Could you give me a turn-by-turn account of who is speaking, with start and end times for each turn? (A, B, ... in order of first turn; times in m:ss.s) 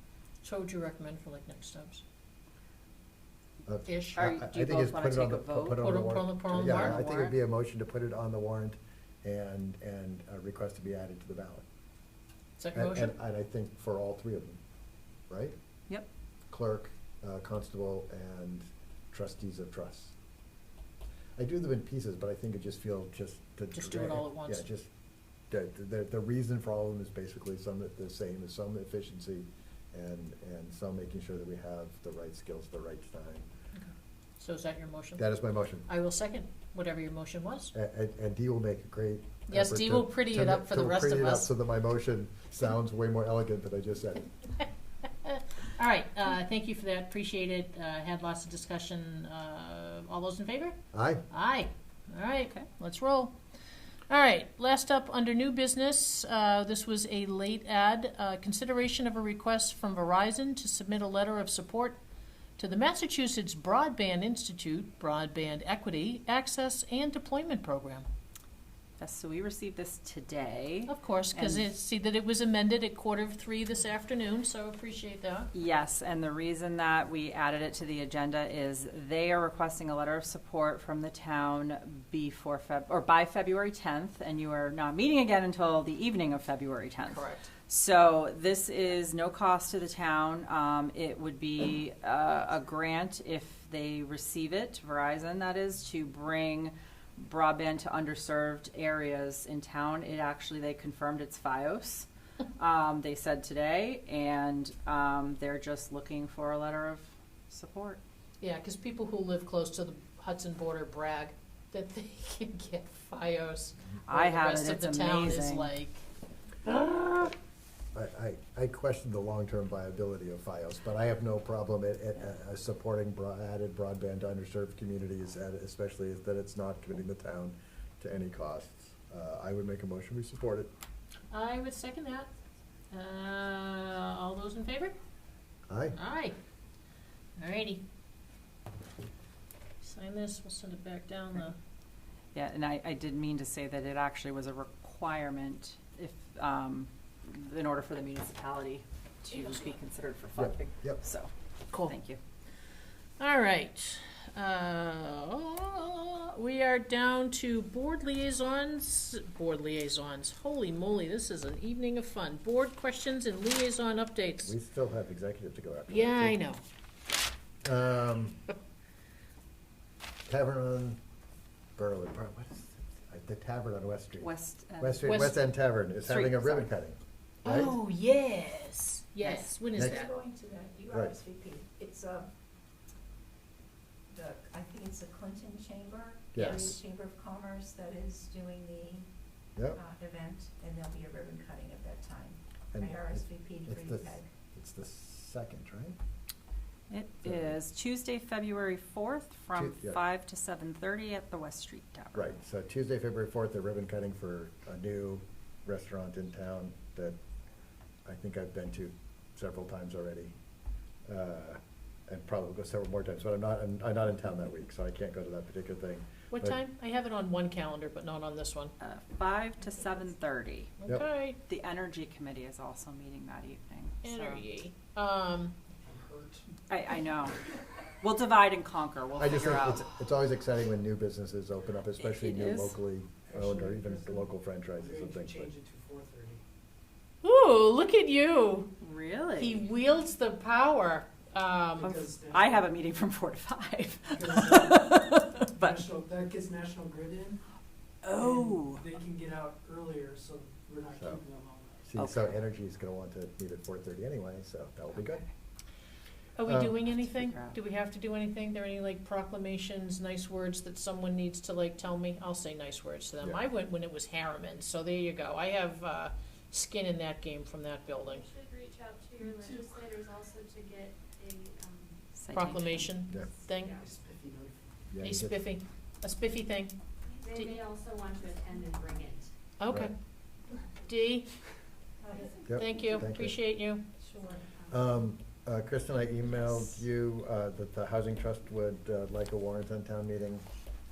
0:00.4-0:02.0 A
0:03.7-0:11.6 B
0:03.8-0:04.3 A
0:04.2-0:07.3 C
0:05.8-0:07.3 A
0:12.6-0:13.1 A
0:12.7-0:14.6 B
0:15.3-0:15.6 B
0:16.5-0:20.1 B
0:21.4-0:24.9 B
0:23.7-0:24.6 A
0:25.5-0:33.5 B
0:33.8-0:35.2 A
0:35.2-0:35.9 B
0:35.9-0:37.7 A
0:37.7-0:44.3 B
0:39.5-0:41.5 A
0:45.2-0:50.8 A
0:50.9-0:51.2 B
0:51.3-0:53.4 A
0:54.1-1:02.0 A
1:02.6-1:08.0 A
1:09.0-1:11.7 C
1:10.9-1:15.5 A
1:15.5-1:48.0 C
1:27.1-1:27.5 A
1:48.4-1:56.0 A
1:54.0-1:55.7 C
1:57.9-2:10.7 B
2:11.3-2:12.3 A
2:12.9-2:15.0 A
2:15.7-2:16.0 B
2:15.9-2:16.4 A
2:17.4-2:17.8 A
2:19.8-2:21.6 A
2:22.3-2:31.3 C
2:29.3-2:29.7 A
2:30.4-2:31.0 B
2:31.7-2:32.0 A
2:31.8-2:32.2 C
2:33.2-2:44.5 A
2:44.4-2:46.4 B
2:45.9-2:46.6 A
2:47.6-2:48.4 B
2:50.2-2:51.0 B
2:51.8-2:57.7 B
2:54.2-2:55.2 C
2:55.0-2:55.3 A
2:56.0-2:56.7 C
2:57.4-3:00.1 A
2:59.2-2:59.6 C
2:59.7-3:02.3 D
2:59.7-3:00.1 B
3:00.9-3:01.1 B
3:04.1-3:09.1 D
3:06.3-3:06.8 B
3:06.4-3:06.7 A
3:09.6-3:09.8 B
3:09.7-3:14.3 D
3:12.7-3:16.0 B
3:16.9-3:22.3 C
3:17.2-3:17.5 B
3:19.5-3:20.0 B
3:22.1-3:27.2 B
3:28.0-3:30.4 B
3:31.1-3:36.6 B
3:36.3-3:38.7 A
3:38.8-3:40.8 C
3:39.7-3:40.0 D
3:40.8-3:41.4 A
3:41.4-3:44.4 C
3:44.0-3:45.6 A
3:45.8-3:46.4 E
3:46.7-3:47.4 C
3:48.0-3:49.8 C
3:49.2-3:55.5 B
3:52.0-3:52.8 C
3:53.3-3:56.4 E
3:57.2-3:58.7 A
3:58.8-3:59.6 C
3:59.4-4:01.9 A
4:01.7-4:02.7 E
4:01.8-4:05.8 C
4:04.1-4:07.4 E
4:08.0-4:08.8 C
4:08.1-4:11.9 E
4:11.0-4:11.2 B
4:11.8-4:15.2 B
4:12.0-4:12.3 C
4:16.4-4:28.2 A
4:16.4-4:16.8 B
4:16.8-4:17.6 C
4:28.2-4:32.0 F
4:29.2-4:29.8 E
4:32.1-4:32.9 C
4:32.3-4:33.8 A
4:33.6-4:33.9 F
4:33.7-4:34.9 E
4:34.9-4:35.4 B
4:35.0-4:36.8 A
4:37.1-4:39.3 F
4:37.3-4:37.6 A
4:39.6-4:39.9 A
4:40.8-4:41.3 A
4:42.0-4:42.8 D
4:42.4-4:43.4 B
4:42.5-4:43.9 A
4:44.1-4:44.5 D
4:44.7-4:50.4 B